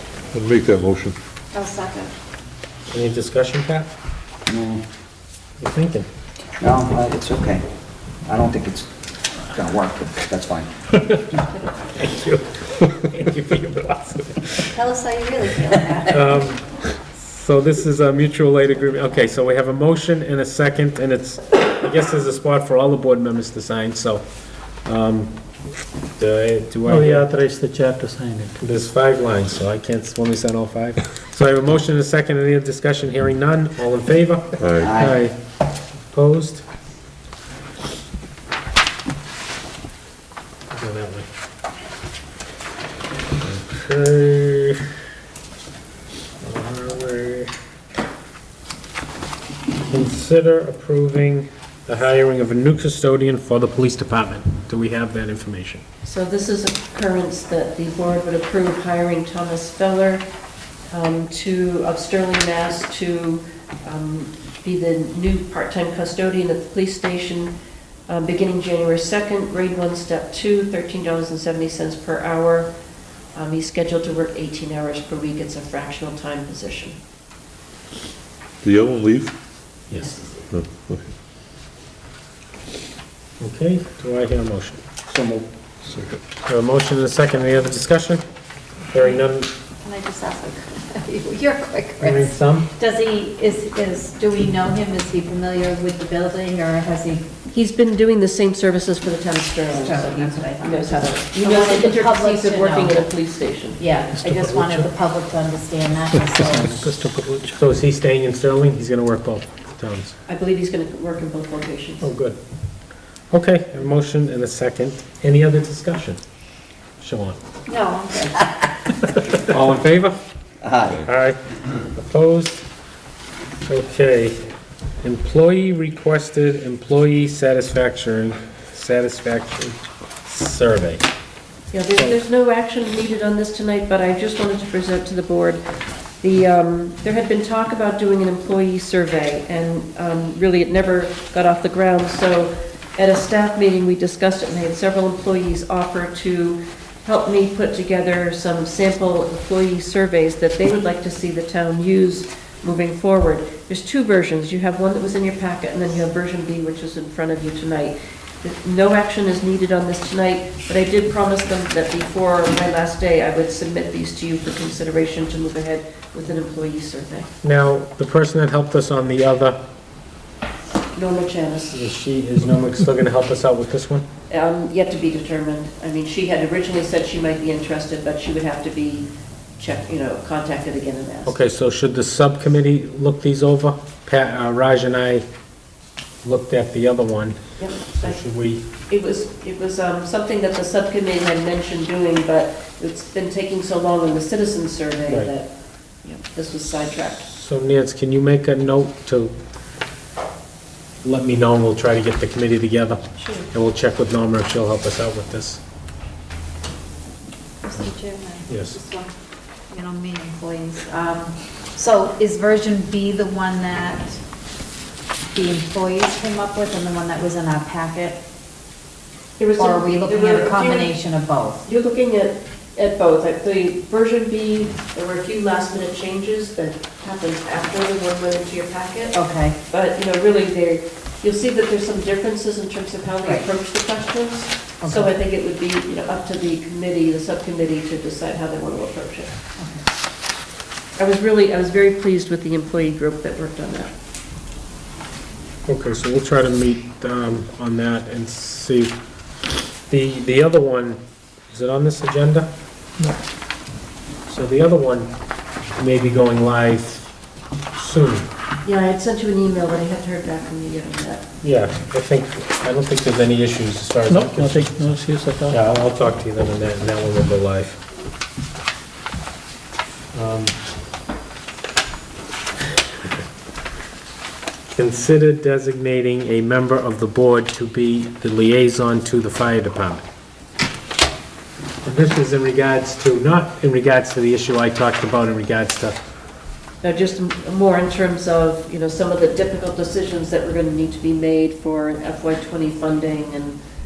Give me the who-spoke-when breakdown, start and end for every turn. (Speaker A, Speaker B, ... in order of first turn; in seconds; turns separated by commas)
Speaker A: 0.3-1.1, Speaker B: 1.5-2.1, Speaker C: 2.9-3.9, Speaker D: 4.5-4.8, Speaker C: 5.6-6.1, Speaker D: 6.6-7.7, Speaker D: 8.2-8.9, Speaker D: 9.4-10.7, Speaker C: 12.0-14.6, Speaker B: 14.7-16.3, Speaker C: 16.1-25.3, Speaker C: 26.2-27.2, Speaker E: 26.8-28.6, Speaker C: 28.6-34.5, Speaker A: 34.6-35.0, Speaker D: 34.8-35.2, Speaker C: 35.0-35.4, Speaker C: 36.1-36.6, Speaker C: 40.7-41.3, Speaker C: 43.5-44.8, Speaker C: 46.4-47.5, Speaker C: 49.9-55.8, Speaker F: 56.0-60.2, Speaker F: 60.9-67.5, Speaker F: 68.1-72.7, Speaker F: 73.3-77.0, Speaker A: 78.6-79.3, Speaker F: 80.0-80.5, Speaker A: 80.5-81.1, Speaker C: 83.4-84.8, Speaker D: 85.1-85.5, Speaker A: 85.8-86.2, Speaker C: 86.5-88.2, Speaker C: 88.9-89.5, Speaker B: 89.8-97.2, Speaker C: 92.0-92.7, Speaker F: 97.5-103.8, Speaker B: 99.7-103.0, Speaker B: 103.8-106.8, Speaker E: 104.2-104.5, Speaker C: 104.4-104.9, Speaker E: 106.3-107.6, Speaker C: 107.6-110.1, Speaker F: 110.3-112.1, Speaker C: 112.0-112.4, Speaker C: 113.3-116.2, Speaker C: 117.0-117.4, Speaker B: 117.7-119.3, Speaker C: 119.4-120.2, Speaker D: 120.6-121.0, Speaker C: 120.9-121.4, Speaker C: 122.0-122.7, Speaker C: 123.7-124.4, Speaker C: 125.0-131.0, Speaker F: 131.7-135.6, Speaker F: 136.2-167.3, Speaker C: 167.4-169.6, Speaker F: 170.9-171.8, Speaker C: 171.7-174.1, Speaker F: 174.3-181.4, Speaker C: 181.3-185.2, Speaker C: 186.2-187.4, Speaker F: 187.6-188.2, Speaker C: 188.0-188.7, Speaker F: 188.9-195.5, Speaker F: 196.0-197.3, Speaker C: 197.3-199.3, Speaker C: 201.0-205.6, Speaker F: 203.2-203.5, Speaker B: 207.6-209.1, Speaker C: 208.5-208.8, Speaker B: 209.7-214.2, Speaker B: 215.3-218.2, Speaker F: 219.4-220.9, Speaker B: 219.6-221.7, Speaker F: 221.7-239.3, Speaker B: 229.1-229.6, Speaker B: 234.8-235.1, Speaker F: 241.0-243.9, Speaker C: 245.7-248.9, Speaker C: 249.9-251.0, Speaker C: 251.5-252.5, Speaker C: 254.3-255.1, Speaker C: 255.8-257.1, Speaker C: 257.8-258.3, Speaker F: 258.6-261.3, Speaker C: 261.4-265.0, Speaker E: 264.1-265.6, Speaker C: 265.5-267.8, Speaker C: 270.1-270.6, Speaker C: 274.7-280.0, Speaker C: 281.8-286.0, Speaker F: 286.8-293.6